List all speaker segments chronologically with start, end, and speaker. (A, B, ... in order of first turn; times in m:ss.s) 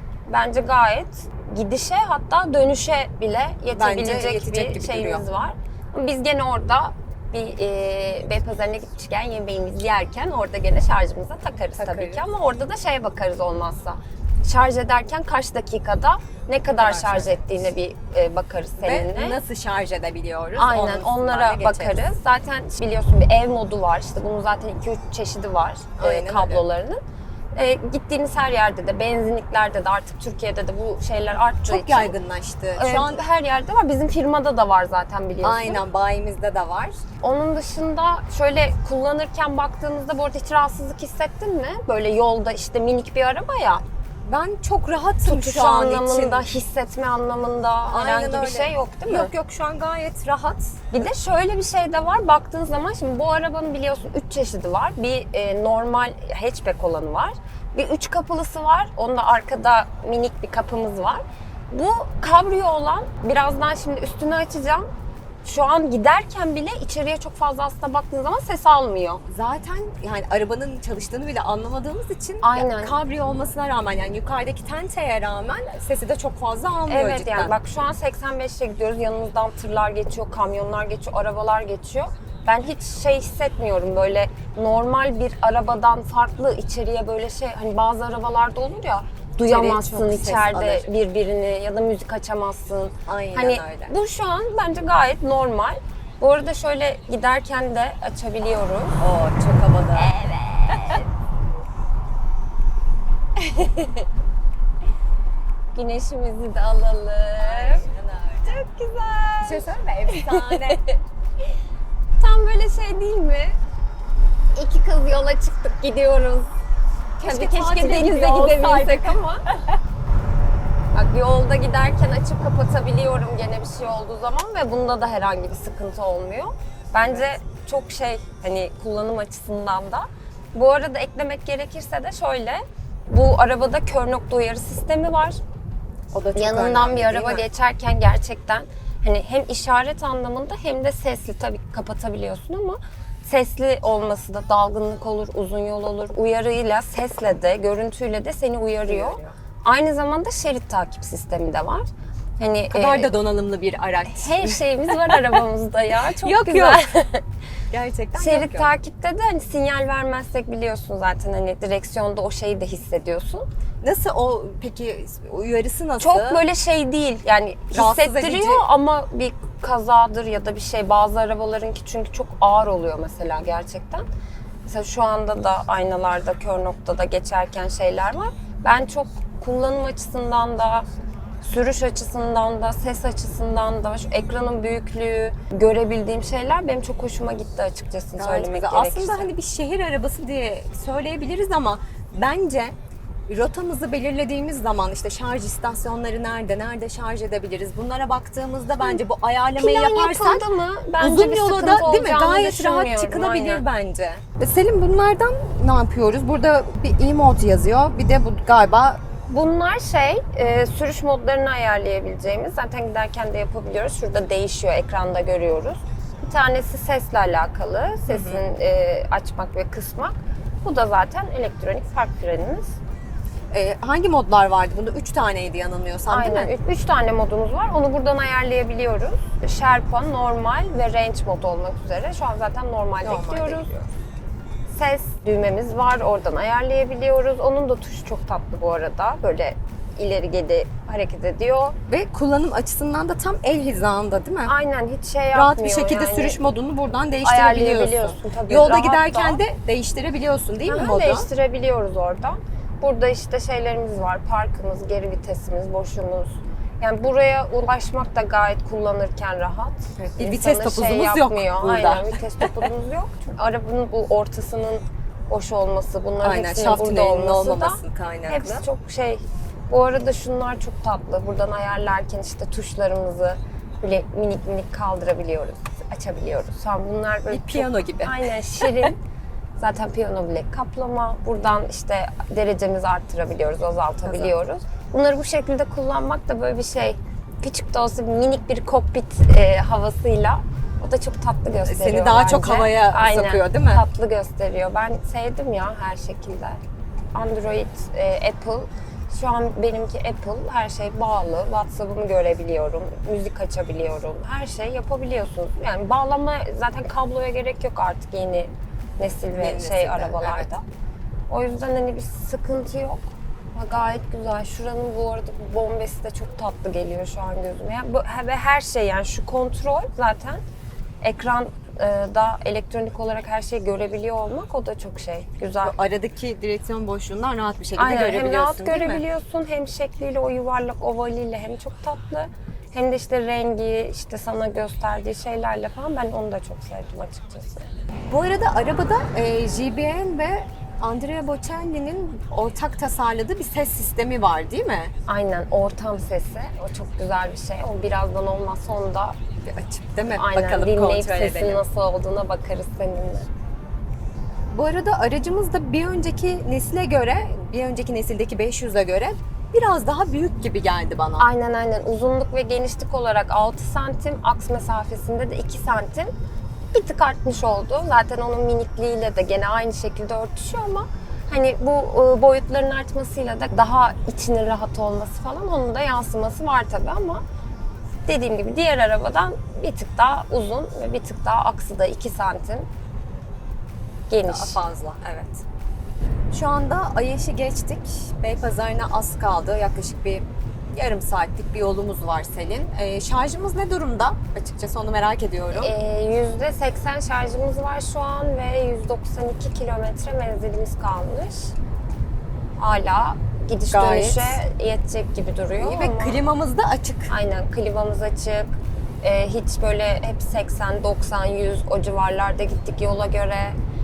0:00.3-0:19.4 A
0:03.7-0:05.2 B
0:11.8-0:12.2 B
0:16.8-0:17.4 B
0:18.8-0:22.1 B
0:20.6-0:27.0 A
0:26.0-0:26.6 B
0:27.6-0:32.1 A
0:31.6-0:33.2 B
0:32.8-0:35.8 A
0:35.4-0:37.0 B
0:37.2-0:43.8 A
0:44.2-0:46.5 B
0:45.2-0:49.3 A
0:47.9-0:50.8 B
0:50.9-1:04.9 A
1:05.4-1:09.2 A
1:09.3-1:17.5 B
1:12.4-1:13.0 A
1:16.9-1:39.0 A
1:29.5-1:30.8 B
1:33.1-1:33.9 B
1:39.0-1:40.1 B
1:40.0-1:41.1 A
1:43.4-1:44.0 A
1:45.7-1:47.8 A
1:47.4-1:48.5 B
1:48.5-1:51.0 A
1:49.4-1:50.8 B
1:52.2-1:53.6 A
1:54.6-1:56.5 A
1:57.2-1:59.2 B
1:57.2-1:59.4 A
2:00.9-2:15.4 A
2:16.1-2:17.4 B
2:16.4-2:33.1 A
2:28.9-2:29.3 B
2:32.7-2:35.4 B
2:34.1-2:37.2 A
2:36.2-2:36.8 B
2:37.7-2:38.7 B
2:38.2-2:43.5 A
2:43.8-2:46.4 B
2:46.0-2:54.1 A
2:47.7-2:48.7 B
2:54.7-3:00.9 A
3:01.4-3:09.3 A
3:08.2-3:12.7 B
3:13.3-3:20.4 B
3:19.6-3:23.6 A
3:21.0-3:29.0 B
3:29.3-3:42.8 A
3:38.1-3:38.4 B
3:43.5-3:46.6 B
3:46.1-3:53.7 A
3:53.0-3:53.9 B
3:54.7-4:01.8 A
4:01.9-4:04.5 B
4:04.4-4:06.4 A
4:05.3-4:11.3 B
4:07.2-4:09.4 A
4:10.7-4:39.0 A
4:20.0-4:22.5 B
4:26.2-4:28.6 B
4:37.3-4:38.9 B
4:39.6-4:56.6 A
4:44.1-4:44.3 B
4:51.6-4:53.8 B
4:57.1-5:10.6 A
5:09.4-5:10.5 B
5:11.3-5:20.4 A
5:21.0-5:25.7 A
5:25.6-5:29.0 B
5:27.8-5:37.7 A
5:38.1-5:44.9 B
5:45.1-5:49.2 A
5:49.5-5:51.6 B
5:50.1-5:53.3 A
5:54.5-6:01.2 B
6:01.2-6:06.1 A
6:06.7-6:17.2 A
6:18.1-6:22.7 A
6:24.1-6:24.6 A
6:24.2-6:25.4 B
6:26.3-6:35.7 B
6:35.6-6:41.5 A
6:42.6-6:46.2 A
6:43.7-6:44.4 B
6:45.6-6:47.1 B
6:47.1-6:53.6 A